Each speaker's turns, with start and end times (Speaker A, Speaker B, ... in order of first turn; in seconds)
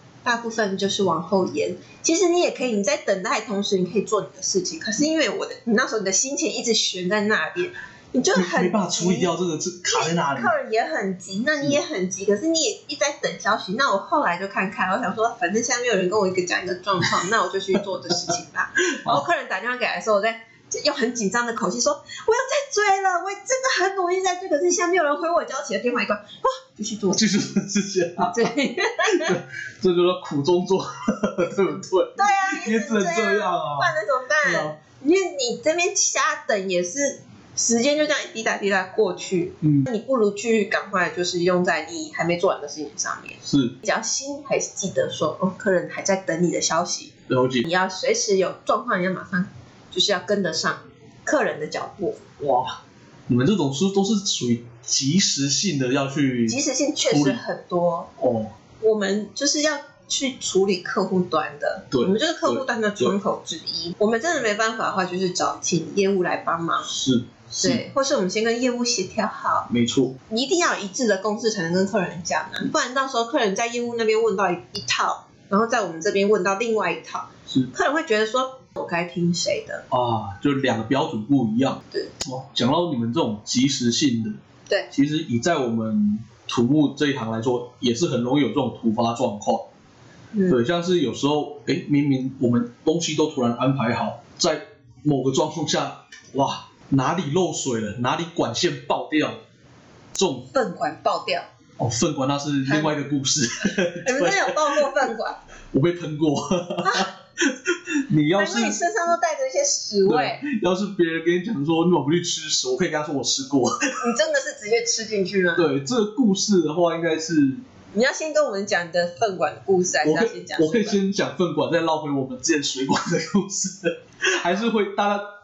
Speaker A: 0.2-9.3, 9.9-27.2, 28.2-29.4, 31.4-47.1, 47.6-52.2, 56.5-58.1, 58.8-66.9, 67.5-69.7, 70.3-79.8, 90.3-90.6, 100.5-101.5, 102.7-102.9, 103.8-105.4, 106.8-107.1, 108.3-110.4, 114.0-115.7, 117.9-121.0
Speaker B: 8.3-10.5, 18.8-19.2, 27.1-28.4, 29.0-34.8, 39.6-39.9, 43.4-43.7, 47.3-47.6, 52.4-57.4, 58.2-58.5, 61.9-63.2, 66.8-67.8, 69.7-70.2, 79.9-84.4, 84.9-89.7, 90.5-99.4, 100.1-100.5, 101.8-105.1, 105.7-108.8, 110.0-114.0, 115.5-117.6, 120.0-125.2